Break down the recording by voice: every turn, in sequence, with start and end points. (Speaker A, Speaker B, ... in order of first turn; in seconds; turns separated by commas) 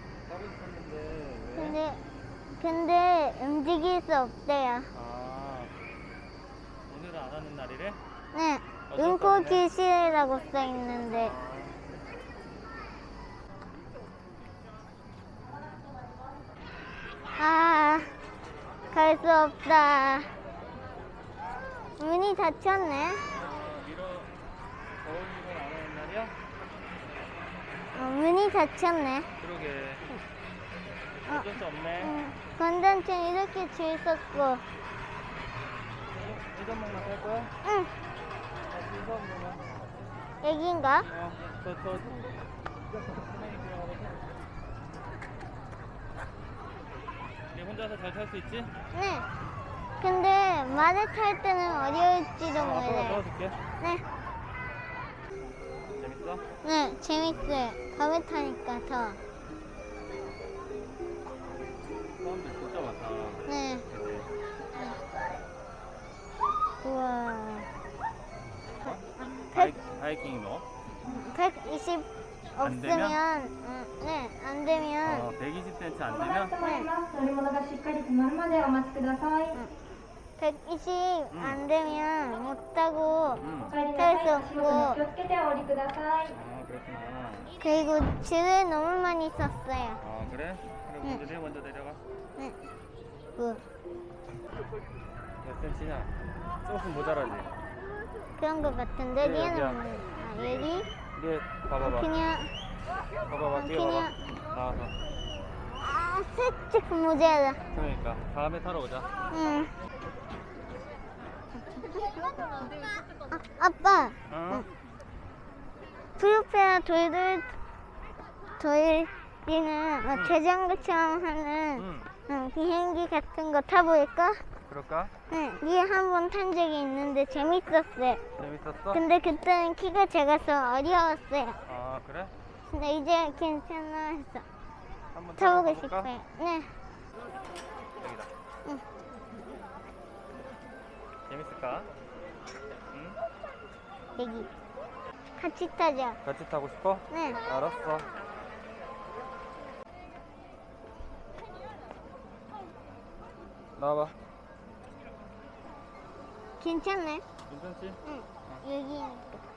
Speaker A: 0.2-1.8, Speaker B: 1.6-2.0, Speaker B: 2.6-4.9, Speaker A: 4.9-5.7, Speaker A: 6.9-8.0, Speaker B: 8.3-11.3, Speaker A: 8.9-9.6, Speaker A: 11.2-11.9, Speaker B: 17.4-18.1, Speaker B: 18.9-20.3, Speaker B: 22.0-23.3, Speaker A: 23.2-24.3, Speaker A: 25.0-26.4, Speaker B: 27.9-29.3, Speaker A: 29.4-30.1, Speaker A: 31.2-32.1, Speaker B: 32.0-34.6, Speaker A: 36.1-37.5, Speaker B: 37.6-37.9, Speaker A: 38.7-39.7, Speaker B: 40.4-41.1, Speaker A: 41.0-42.3, Speaker A: 43.1-44.3, Speaker A: 47.5-48.7, Speaker B: 48.9-49.3, Speaker B: 50.0-53.2, Speaker A: 52.5-53.6, Speaker B: 53.8-54.1, Speaker A: 55.9-56.4, Speaker B: 56.6-59.2, Speaker A: 62.2-64.3, Speaker B: 63.5-63.9, Speaker B: 66.8-67.7, Speaker A: 68.8-70.7, Speaker B: 68.9-69.7, Speaker B: 71.0-75.3, Speaker A: 72.6-73.2, Speaker A: 75.0-76.5, Speaker C: 76.1-79.6, Speaker B: 76.6-76.9, Speaker B: 80.4-83.4, Speaker A: 81.3-81.6, Speaker A: 83.4-83.8, Speaker C: 83.7-86.3, Speaker B: 84.0-85.0, Speaker A: 86.3-87.5, Speaker B: 87.6-90.0, Speaker A: 90.0-92.0, Speaker B: 93.4-93.6, Speaker A: 95.4-96.1, Speaker A: 96.6-97.5, Speaker B: 98.4-100.9, Speaker A: 99.2-99.8, Speaker A: 100.4-102.1, Speaker B: 101.8-102.5, Speaker A: 103.3-105.0, Speaker B: 103.5-104.2, Speaker B: 105.8-107.6, Speaker A: 107.7-109.1, Speaker B: 109.3-109.7, Speaker B: 111.7-112.0, Speaker B: 113.3-114.7, Speaker A: 114.3-114.7, Speaker B: 116.2-117.5, Speaker B: 118.6-124.4, Speaker A: 121.8-122.1, Speaker A: 124.7-125.1, Speaker B: 125.3-128.2, Speaker A: 128.4-129.0, Speaker B: 128.9-131.6, Speaker A: 131.7-132.3, Speaker B: 132.7-134.5, Speaker A: 135.1-136.1, Speaker B: 135.4-136.8, Speaker A: 138.0-138.3, Speaker A: 141.3-141.9, Speaker A: 142.9-143.2, Speaker B: 144.2-144.5, Speaker B: 145.4-146.2, Speaker A: 146.2-148.1, Speaker B: 147.1-147.4, Speaker A: 153.8-154.2, Speaker B: 156.6-157.2, Speaker A: 157.5-158.7, Speaker B: 158.0-159.5